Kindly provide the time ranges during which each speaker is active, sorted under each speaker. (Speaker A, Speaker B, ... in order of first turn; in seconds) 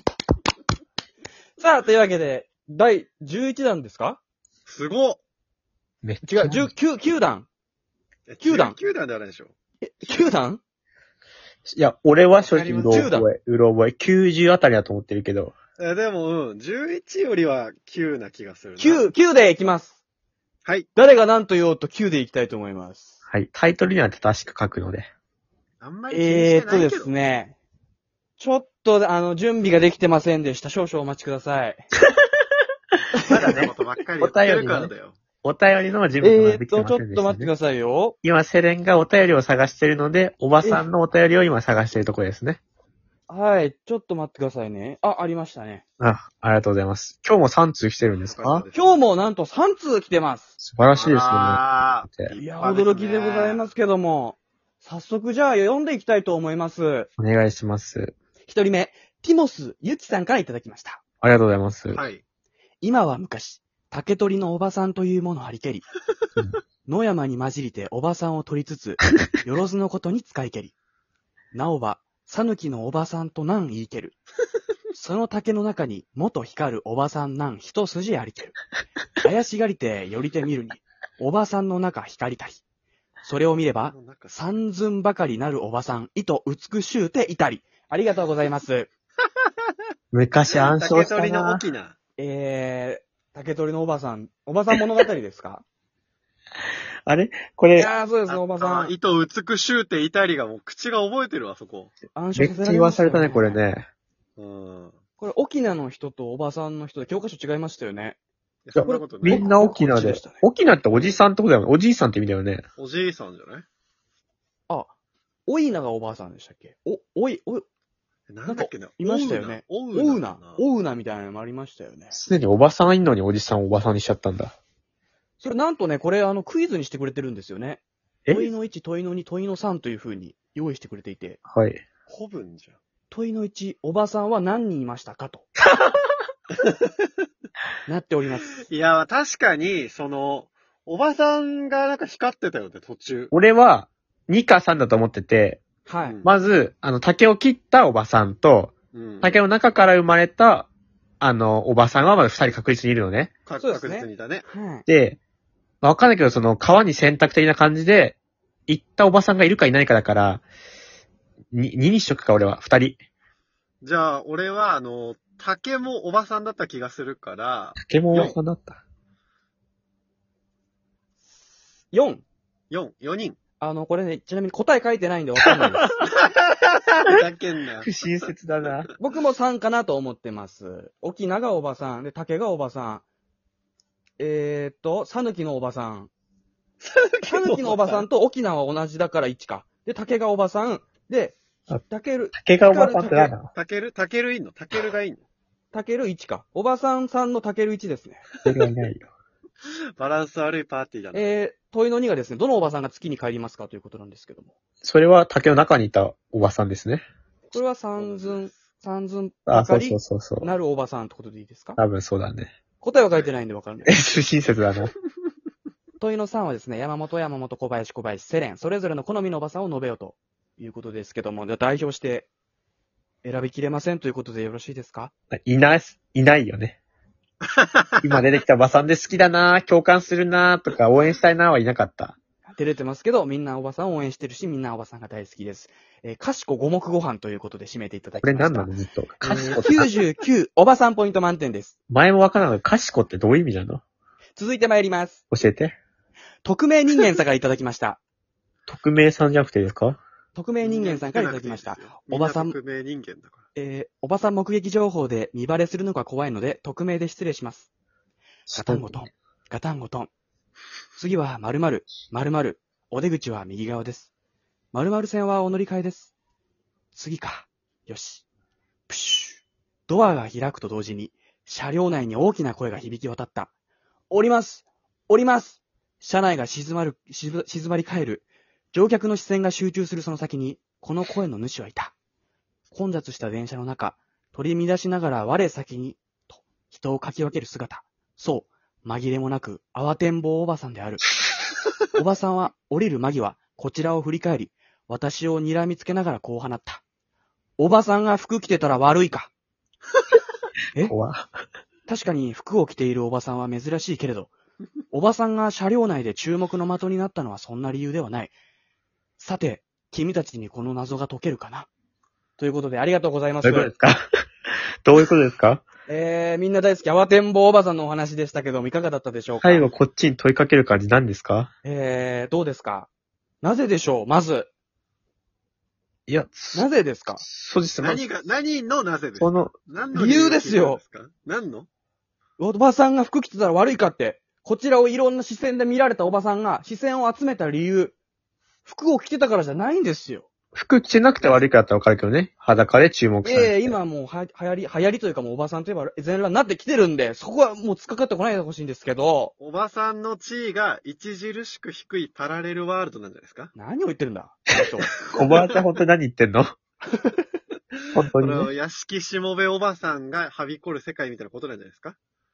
Speaker A: 1.6-4.2, 6.2-7.5, 8.4-8.8, 9.8-10.6, 12.5-13.3, 18.8-20.0, 21.0-23.2, 26.1-27.6, 28.4-31.9, 33.1-33.6, 36.2-38.1, 43.3-45.8, 48.7-50.5, 52.4-57.1, 58.5-61.0, 62.8-65.9, 66.8-70.7, 71.5-74.2, 74.9-78.6, 79.2-82.6, 83.2-88.9, 92.2-95.6, 97.8-98.9, 102.1-103.6, 105.2-108.2, 108.8-110.4, 115.5-117.6, 118.5-122.2, 125.4-131.4, 133.1-135.5, 137.9-138.6, 145.9-146.2, 153.6-154.8, 171.9-172.2, 173.6-175.9, 179.0-183.1, 184.2-186.1, 187.2-193.3, 195.7-198.3, 201.1-204.5, 207.5-211.8, 212.8-213.9, 216.0-222.3, 223.2-225.1, 232.6-241.7, 244.4-245.2, 246.4-248.0, 250.3-252.6, 253.6-257.7, 258.5-260.1, 260.9-264.1, 264.7-266.1, 266.9-268.2, 268.9-273.5, 274.1-281.9, 282.7-291.0, 291.9-296.8, 297.6-299.3, 301.9-304.3, 304.9-308.3, 309.2-311.7, 312.4-313.7, 315.9-319.7, 321.6-322.9, 323.4-324.5, 326.5-327.2, 329.9-330.8, 332.4-337.9, 338.6-340.3, 343.2-349.3, 353.6-354.9
Speaker B: 4.7-5.2, 8.3-9.5, 12.8-13.1, 15.8-19.0, 25.8-27.1, 33.4-35.2, 48.2-49.0, 51.0-53.7, 61.9-62.2, 83.9-84.4, 90.5-92.0, 98.3-101.9, 104.4-104.9, 108.7-109.5, 112.8-113.6, 118.3-120.6, 132.1-132.8, 138.6-143.3, 148.9-149.4, 153.5-154.4, 163.8-168.4, 172.7-173.4, 176.1-177.9, 186.8-188.1, 193.5-195.2, 200.0-201.3, 207.5-208.6, 227.4-228.0, 250.6-253.5, 327.8-331.7, 349.4-353.5, 358.2-361.9
Speaker C: 6.0-6.7, 11.6-15.6, 23.2-25.1, 33.2-34.9, 35.4-37.5, 38.2-42.6, 46.0-48.6, 50.6-52.3, 57.2-58.1, 61.2-62.0, 90.1-91.6, 97.0-97.9, 102.4-103.9, 108.7-112.6, 122.1-124.5, 131.5-131.8, 135.6-135.9, 143.3-145.6, 146.2-150.7, 151.2-153.3, 154.9-155.2, 155.8-160.4, 161.5-163.0, 167.8-168.8, 177.8-178.9, 192.3-193.5, 198.4-199.1, 204.8-207.0, 209.5-210.5, 211.8-212.5, 213.9-214.9, 225.3-226.8, 228.0-232.2, 238.2-239.9, 241.9-243.8, 245.3-245.8, 248.7-250.0, 258.5-258.9, 300.8-301.3, 313.4-314.0, 314.8-315.6, 319.4-321.5, 326.1-326.7, 327.2-328.0, 329.2-329.6, 340.5-343.8, 354.6-356.5, 357.9-358.5